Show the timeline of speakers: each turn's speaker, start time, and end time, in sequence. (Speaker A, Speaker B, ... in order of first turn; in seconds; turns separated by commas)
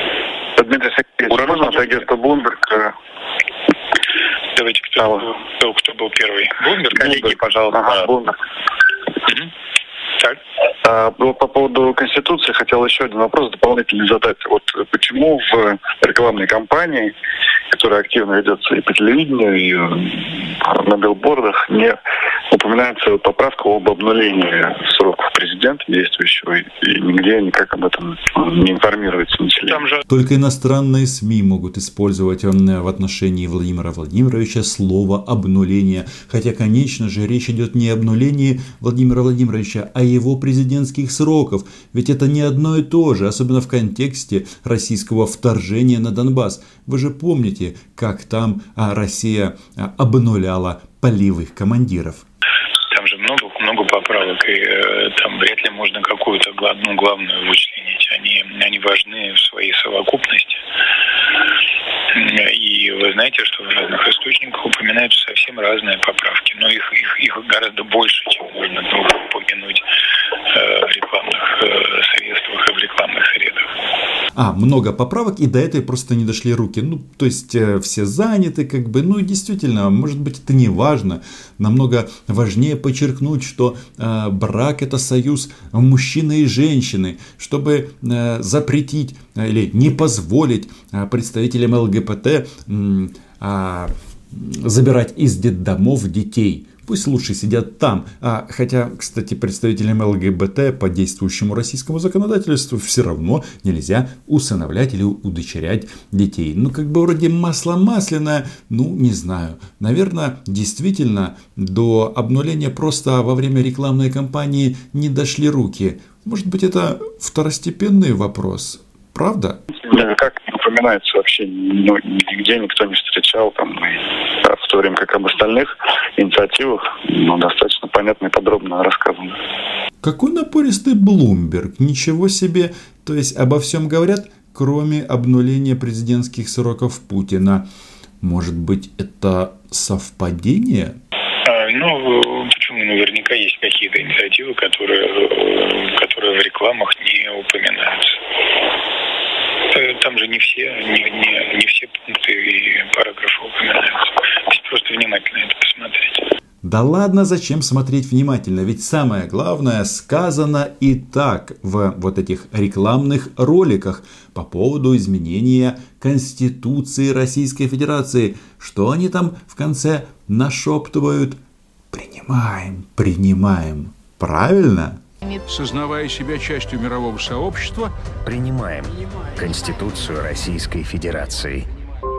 Speaker A: 0.6-2.9, Speaker B: 1.3-2.0, Speaker B: 4.5-8.1, Speaker A: 6.9-8.3, Speaker A: 10.8-17.1, Speaker A: 17.7-22.0, Speaker A: 22.5-29.8, Speaker B: 29.7-30.0, Speaker C: 30.1-52.3, Speaker B: 52.9-60.6, Speaker B: 62.1-69.8, Speaker B: 70.5-73.7, Speaker C: 74.4-119.6, Speaker A: 119.9-129.4, Speaker C: 130.0-137.7, Speaker C: 138.2-141.0, Speaker B: 141.4-148.2, Speaker B: 149.7-156.3, Speaker C: 156.6-171.4, Speaker C: 171.9-175.0, Speaker D: 175.3-178.1, Speaker E: 178.1-181.7